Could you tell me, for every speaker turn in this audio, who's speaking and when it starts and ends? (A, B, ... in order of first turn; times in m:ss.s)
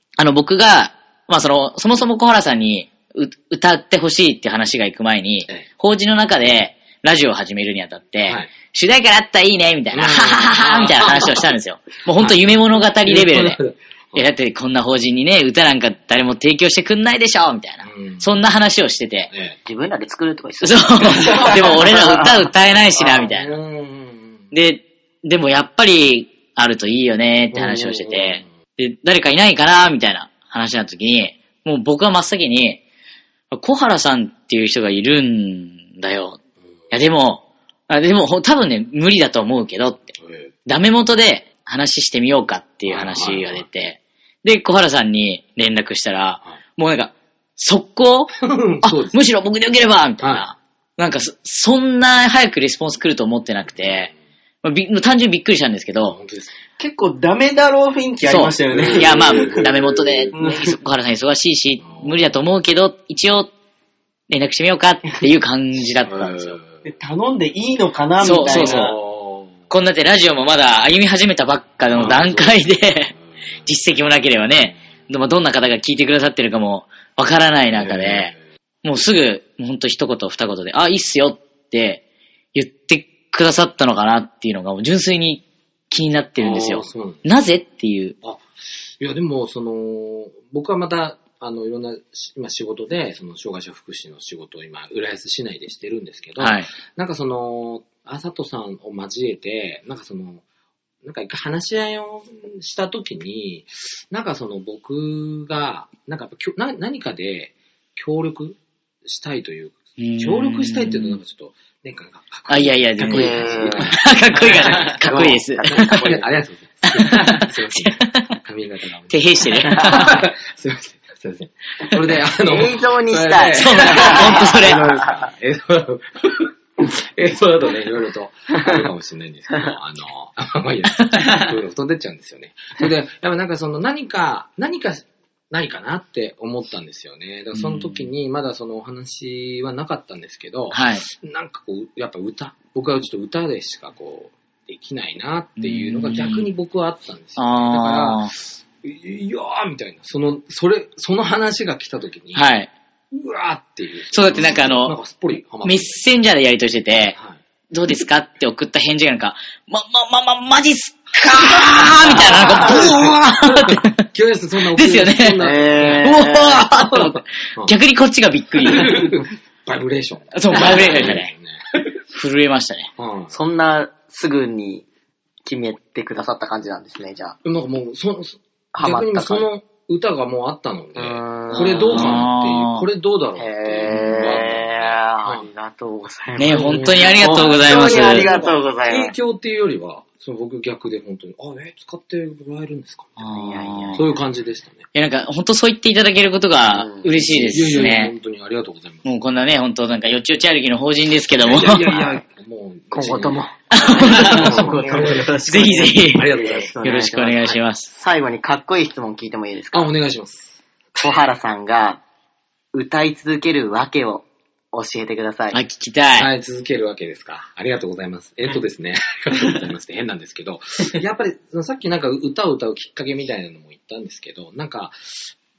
0:00.2-0:13.6 A
0:08.2-0:08.5 B
0:09.9-0:11.5 B
0:12.1-0:12.5 B
0:13.0-0:14.3 B
0:14.1-0:19.3 A
0:17.8-0:18.4 B
0:19.3-0:19.6 B
0:19.6-0:22.3 C
0:20.6-0:23.5 A
0:21.0-0:22.2 B
0:23.0-0:24.5 B
0:24.5-0:32.8 A
0:27.5-0:28.5 B
0:33.5-0:36.4 A
0:36.9-0:40.1 A
0:40.2-0:40.5 B
0:40.6-0:54.1 A
0:42.8-0:43.6 B
0:48.4-0:49.2 B
0:50.2-0:50.4 B
0:53.8-0:54.1 B
0:54.6-0:56.2 A
0:56.1-0:56.5 B
0:56.8-0:59.7 D
0:58.2-1:03.5 A
0:58.7-1:00.3 B
1:00.3-1:00.7 D
1:01.8-1:02.1 B
1:04.3-1:06.6 A
1:06.0-1:06.6 B
1:06.8-1:09.0 D
1:08.2-1:09.0 A
1:08.3-1:09.5 B
1:09.7-1:22.0 A
1:11.9-1:12.6 B
1:17.7-1:18.3 B
1:22.5-1:28.1 A
1:26.4-1:27.2 B
1:29.0-1:40.4 B
1:36.4-1:36.7 A
1:41.0-2:32.5 B
1:50.0-1:51.2 A
1:52.5-1:56.2 A
1:53.0-1:53.9 C
1:54.7-1:56.2 C
1:56.8-1:58.3 A
1:59.1-2:00.2 A
2:02.4-2:05.2 C
2:03.5-2:05.0 A
2:11.1-2:11.4 A
2:17.5-2:18.1 A
2:20.7-2:21.0 A
2:25.6-2:26.5 A
2:27.4-2:28.3 A
2:32.3-2:32.7 A
2:33.1-2:36.0 B
2:34.1-2:35.0 A
2:35.6-2:37.2 A
2:37.7-2:44.0 A
2:41.4-2:47.8 B
2:44.7-2:49.2 A
2:45.4-2:46.6 C
2:48.6-2:51.9 B
2:50.3-2:51.3 A
2:52.1-2:52.9 A
2:53.0-2:53.3 B
2:53.3-2:54.8 C
2:55.4-2:57.4 C
2:57.4-3:05.5 B
2:58.7-2:59.5 C
3:01.0-3:02.2 C
3:01.5-3:02.9 A
3:03.4-3:09.1 C
3:06.4-3:08.3 A
3:06.4-3:13.2 B
3:13.2-3:14.0 A
3:13.2-3:14.2 C
3:13.9-3:14.9 B
3:14.9-3:18.1 A
3:16.7-3:17.8 C
3:17.4-3:19.1 B
3:19.0-3:22.2 A
3:21.4-3:26.7 B
3:22.9-3:29.9 C
3:23.7-3:24.8 A
3:24.6-3:25.2 D
3:25.4-3:27.9 A
3:29.7-3:30.6 B
3:31.0-3:32.0 C
3:32.7-3:35.6 C
3:35.5-3:36.3 A
3:36.1-3:45.3 B